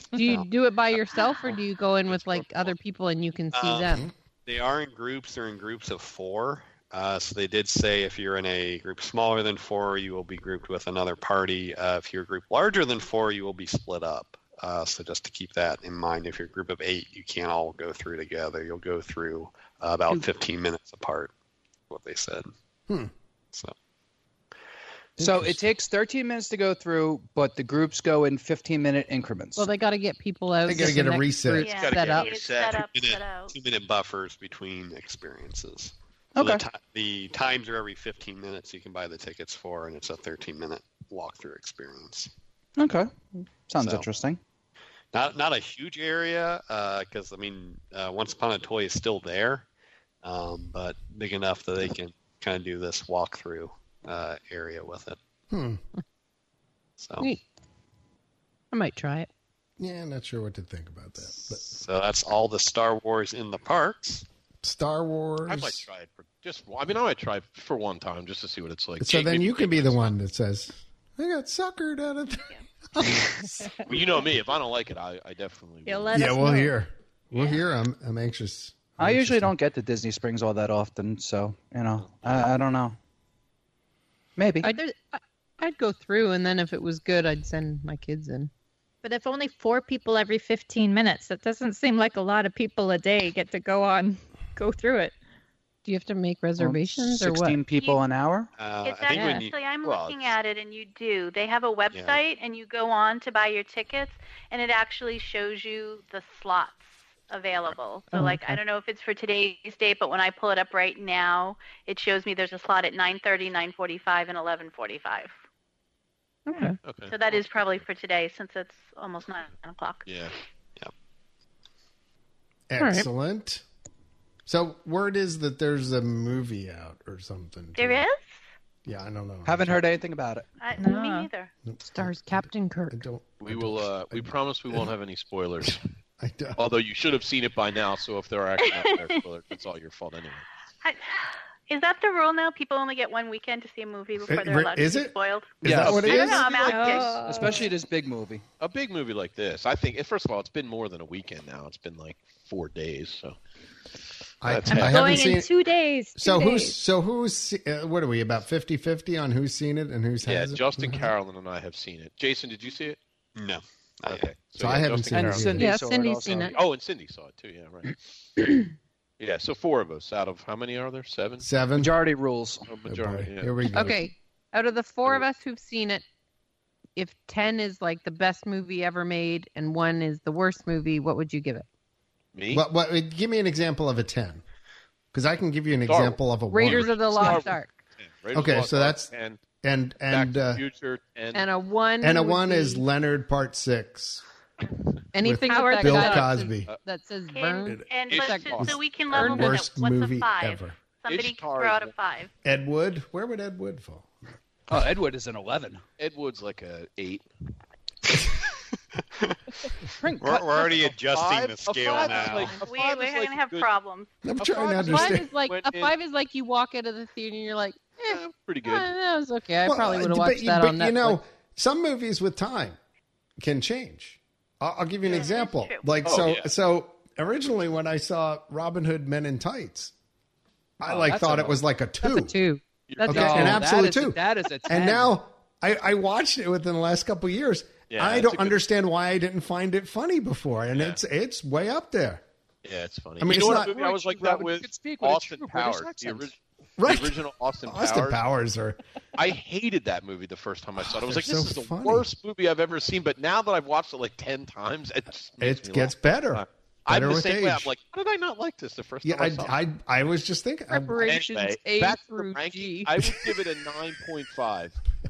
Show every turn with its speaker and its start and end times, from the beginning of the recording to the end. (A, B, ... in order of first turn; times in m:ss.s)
0:00.1-0:04.1 A
0:03.5-0:21.3 B
0:21.9-0:22.5 B
0:25.2-0:29.6 C
0:25.2-0:25.6 D
0:29.6-0:32.3 A
0:30.6-0:31.7 D
0:31.6-0:32.8 E
0:31.6-0:33.5 F
0:32.9-0:42.3 B
0:36.4-0:36.6 C
0:42.8-0:43.1 C
0:43.7-0:44.4 C
0:43.8-0:44.0 B
0:45.1-0:49.6 B
0:50.2-0:55.2 B
0:55.5-0:55.8 D
0:57.0-0:57.3 B
0:58.7-0:59.3 A
0:59.8-1:01.6 D
1:01.5-1:04.2 B
1:04.6-1:05.9 D
1:05.4-1:10.1 E
1:09.0-1:13.8 D
1:13.8-1:16.1 E
1:15.8-1:16.8 G
1:16.1-1:19.5 D
1:19.0-1:23.0 C
1:24.4-1:24.7 C
1:24.6-1:28.5 A
1:29.0-1:35.1 G
1:35.8-1:37.6 A
1:36.6-1:38.5 C
1:37.8-1:38.0 F
1:38.6-1:39.5 B
1:38.8-1:55.4 F
1:39.1-1:39.4 G
1:39.8-1:40.3 E
1:41.9-1:42.2 B
1:48.1-1:48.4 A
1:56.5-1:56.8 A
1:56.8-1:57.8 E
1:57.1-2:00.1 F
2:00.0-2:00.3 E
2:02.7-2:03.6 D
2:02.8-2:03.1 A
2:04.4-2:08.0 D
2:07.8-2:08.4 F
2:08.8-2:09.8 D
2:09.4-2:10.4 C
2:10.6-2:11.5 F
2:10.8-2:11.3 G
2:11.6-2:14.9 D
2:11.8-2:13.0 A
2:13.4-2:15.8 E
2:15.6-2:16.6 D
2:16.6-2:20.4 E
2:18.6-2:19.1 F
2:20.8-2:27.6 F
2:24.3-2:26.5 D
2:25.6-2:26.1 C
2:25.7-2:27.2 E
2:26.5-2:27.7 G
2:27.2-2:28.4 C
2:28.6-2:33.4 E
2:34.4-2:35.5 D
2:34.4-2:35.2 E
2:34.7-2:36.8 G
2:36.1-2:41.1 D
2:40.2-2:43.0 E
2:43.4-2:44.3 B
2:44.1-2:45.7 E
2:44.6-2:45.8 D
2:45.1-2:46.5 C
2:45.6-2:46.6 A
2:46.5-2:47.9 E
2:49.2-2:51.4 E
2:51.4-2:51.9 D
2:51.7-2:52.7 C
2:52.7-2:53.9 E
2:52.8-2:54.0 D
2:53.7-2:56.0 A
2:57.0-3:01.6 A
3:02.3-3:02.6 E
3:02.5-3:04.4 D
3:05.1-3:07.4 D
3:05.9-3:09.4 E
3:06.5-3:07.7 A
3:08.3-3:10.6 D
3:10.1-3:11.4 E
3:11.3-3:12.8 A
3:12.0-3:14.2 D
3:15.1-3:19.5 A
3:15.2-3:16.7 D
3:15.4-3:16.3 G
3:17.3-3:22.3 F
3:17.6-3:18.0 D
3:18.1-3:18.7 E
3:18.6-3:20.8 D
3:21.1-3:21.9 E
3:22.4-3:24.1 D
3:24.7-3:25.8 C
3:26.0-3:27.3 E
3:30.0-3:30.7 C
3:30.2-3:32.6 B
3:30.8-3:33.7 E
3:32.6-3:34.1 F
3:34.2-3:35.3 D
3:34.4-3:35.9 E
3:34.7-3:41.2 A
3:38.0-3:38.9 E
3:39.6-3:42.8 D
3:43.4-3:49.9 D
3:45.0-3:46.0 F
3:46.0-3:46.5 E
3:50.8-3:52.4 D
3:50.8-3:51.6 C
3:52.0-3:53.6 A
3:52.9-3:53.6 E
3:53.1-4:02.2 D
3:53.1-3:55.2 C
3:57.9-3:58.6 E
4:02.6-4:08.2 E
4:03.2-4:03.7 D
4:03.3-4:06.3 C
4:06.8-4:08.8 D
4:09.2-4:19.6 E
4:10.8-4:12.1 D
4:15.4-4:17.7 D
4:19.0-4:21.2 D
4:20.7-4:22.9 A
4:21.0-4:24.8 E
4:23.0-4:23.3 D